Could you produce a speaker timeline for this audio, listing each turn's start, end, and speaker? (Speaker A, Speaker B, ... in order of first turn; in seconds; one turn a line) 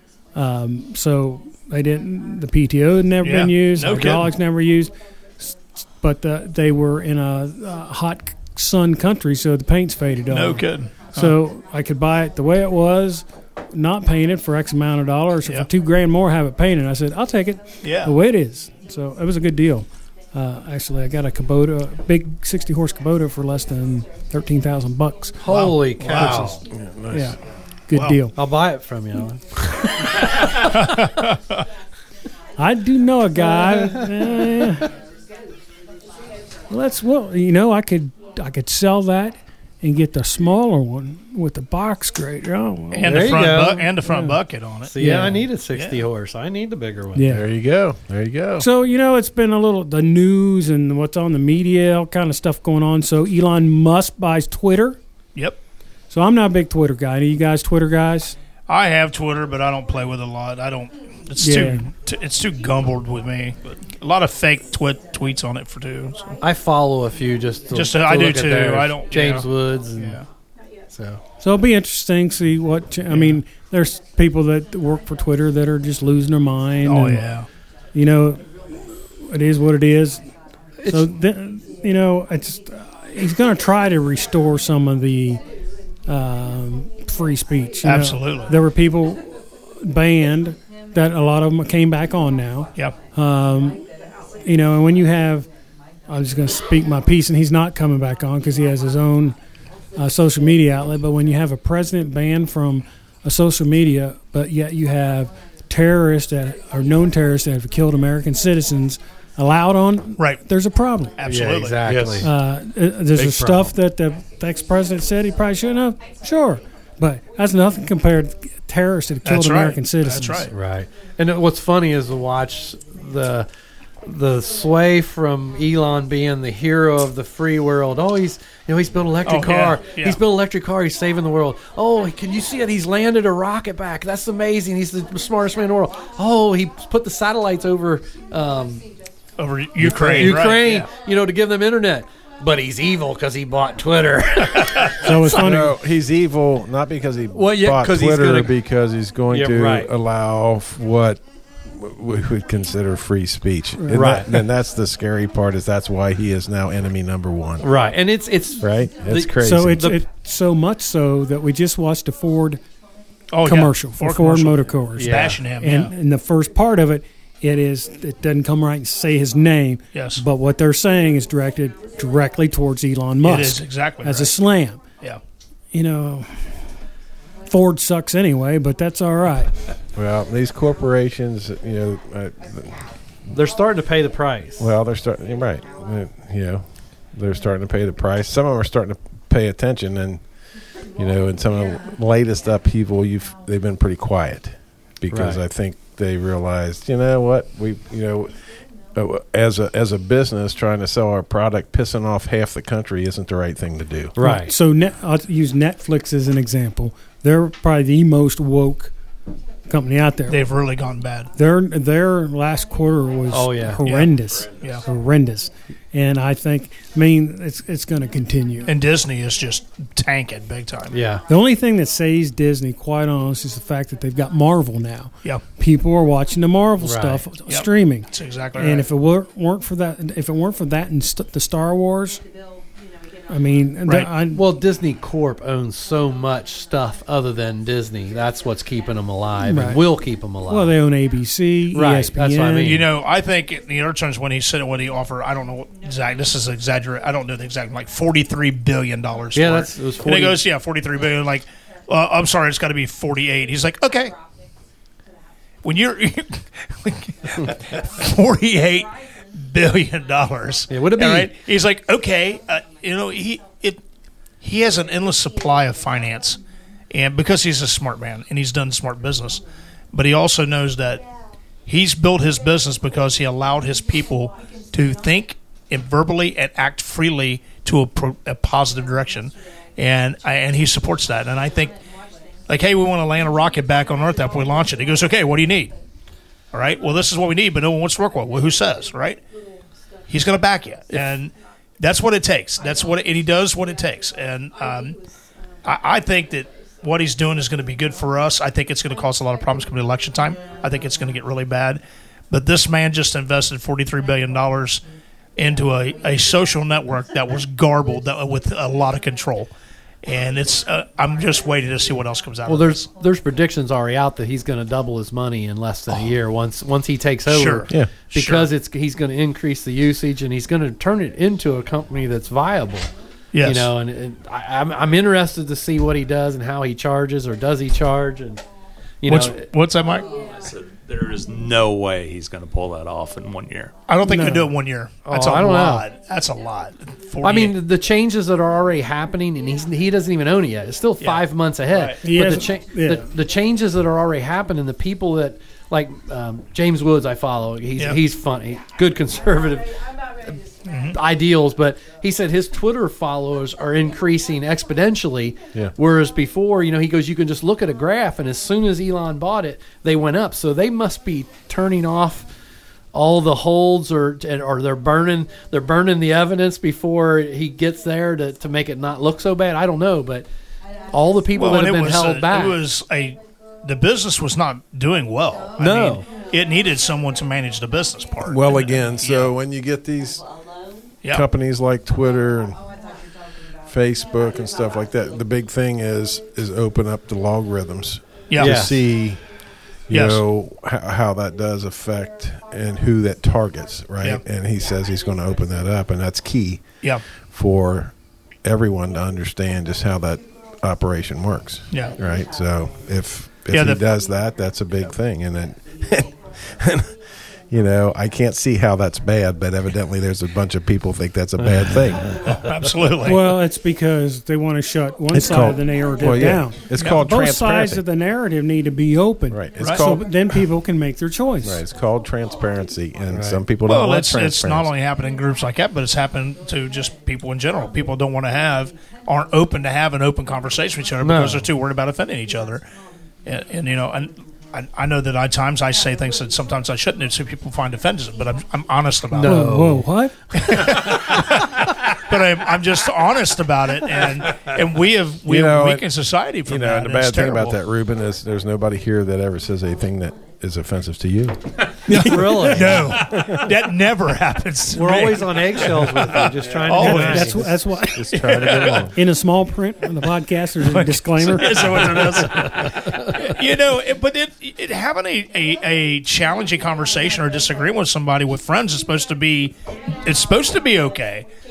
Speaker A: 0.3-25.5
Speaker B: 3.2-4.3
Speaker B: 10.3-11.4
Speaker B: 17.8-18.1
Speaker C: 25.4-26.6
Speaker B: 25.5-26.5
Speaker A: 26.1-26.6
Speaker D: 26.7-27.4
Speaker A: 27.1-27.4
Speaker A: 27.9-28.3
Speaker C: 28.4-29.4
Speaker B: 30.6-31.6
Speaker A: 32.6-34.9
Speaker C: 33.5-34.5
Speaker A: 36.7-43.3
Speaker B: 42.9-45.0
Speaker C: 43.0-44.0
Speaker A: 44.1-44.4
Speaker C: 44.9-47.3
Speaker A: 45.0-45.5
Speaker B: 45.7-46.0
Speaker A: 47.1-47.4
Speaker D: 47.3-48.7
Speaker A: 48.6-55.0
Speaker A: 56.1-58.4
Speaker B: 58.7-66.4
Speaker A: 61.4-61.9
Speaker C: 66.4-70.2
Speaker B: 67.7-70.2
Speaker C: 70.9-71.2
Speaker A: 71.4-77.2
Speaker B: 73.1-73.4
Speaker B: 76.9-77.5
Speaker A: 77.9-78.5
Speaker A: 79.2-80.2
Speaker C: 80.8-81.1
Speaker A: 80.9-85.4
Speaker A: 86.1-93.8
Speaker B: 87.8-88.5
Speaker A: 94.4-95.5
Speaker A: 96.1-99.4
Speaker A: 100.0-111.2
Speaker B: 111.2-111.8
Speaker C: 111.3-112.3
Speaker D: 111.9-112.2
Speaker A: 112.2-120.5
Speaker C: 113.1-113.7
Speaker B: 119.3-120.5
Speaker C: 120.5-123.5
Speaker C: 124.0-138.8
Speaker B: 129.3-130.2
Speaker B: 139.4-140.9
Speaker C: 139.8-145.4
Speaker A: 145.0-145.8
Speaker D: 145.4-157.7
Speaker C: 147.3-148.6
Speaker C: 149.3-149.9
Speaker C: 153.9-154.4
Speaker C: 157.6-160.0
Speaker D: 158.6-159.9
Speaker A: 159.4-162.6
Speaker B: 163.3-165.9
Speaker A: 163.4-174.8
Speaker C: 165.0-165.4
Speaker B: 169.9-170.2
Speaker B: 173.2-174.3
Speaker A: 175.7-176.3
Speaker A: 177.5-179.5
Speaker D: 179.9-182.8
Speaker C: 183.3-184.7
Speaker D: 184.6-190.2
Speaker D: 190.9-198.3
Speaker C: 195.1-195.4
Speaker D: 198.9-204.2
Speaker C: 204.2-204.5
Speaker A: 204.2-208.9
Speaker A: 209.7-210.4
Speaker B: 210.3-211.3
Speaker A: 211.3-218.7
Speaker C: 213.3-213.8
Speaker B: 213.8-214.8
Speaker B: 218.7-221.0
Speaker C: 220.9-221.2
Speaker A: 221.3-232.2
Speaker C: 226.8-227.2
Speaker B: 227.5-228.9
Speaker A: 233.3-234.5
Speaker C: 234.3-240.8
Speaker A: 239.4-239.8
Speaker A: 240.5-242.8
Speaker C: 241.7-242.9
Speaker B: 242.6-254.2
Speaker C: 249.3-250.4
Speaker B: 255.6-263.8
Speaker C: 260.7-261.4
Speaker B: 264.4-266.4
Speaker B: 266.9-271.0
Speaker B: 271.7-281.8
Speaker B: 282.5-285.7
Speaker B: 286.5-289.2
Speaker B: 290.1-295.0
Speaker B: 295.6-304.8
Speaker B: 305.4-309.5
Speaker B: 310.0-312.9
Speaker C: 312.5-322.9
Speaker B: 317.3-318.5
Speaker B: 323.3-323.7
Speaker C: 323.4-328.4
Speaker C: 329.0-329.4
Speaker B: 329.1-330.1
Speaker E: 330.3-333.7
Speaker B: 333.9-337.6
Speaker A: 334.0-334.5
Speaker C: 335.1-335.9
Speaker C: 337.2-349.7
Speaker B: 341.0-342.0
Speaker A: 342.0-343.0
Speaker B: 350.7-351.0
Speaker C: 350.9-362.3
Speaker C: 362.9-370.3
Speaker C: 370.9-372.6
Speaker B: 371.3-379.3
Speaker C: 375.6-376.1
Speaker D: 378.2-380.2
Speaker D: 381.1-382.6
Speaker D: 383.7-389.2
Speaker B: 388.3-388.7
Speaker C: 388.4-388.8
Speaker D: 389.9-396.8
Speaker B: 389.9-390.2
Speaker D: 397.3-407.0
Speaker B: 403.5-403.8
Speaker D: 407.5-412.4
Speaker C: 411.4-411.7
Speaker B: 412.3-413.4
Speaker A: 413.1-421.6
Speaker D: 415.1-417.8
Speaker D: 419.3-420.1
Speaker B: 419.6-419.9
Speaker D: 421.4-424.7
Speaker C: 423.1-423.4
Speaker B: 423.7-432.6
Speaker C: 431.0-431.5
Speaker B: 433.3-439.4
Speaker C: 439.1-439.9
Speaker A: 439.2-440.1
Speaker B: 440.3-447.6
Speaker D: 445.3-445.9
Speaker D: 446.5-451.5
Speaker C: 451.9-453.0
Speaker B: 451.9-457.5
Speaker A: 451.9-452.5
Speaker D: 452.7-453.5
Speaker C: 454.7-457.4
Speaker A: 456.8-458.1
Speaker D: 457.9-458.9
Speaker B: 458.0-458.9
Speaker A: 458.9-461.9
Speaker B: 460.6-471.3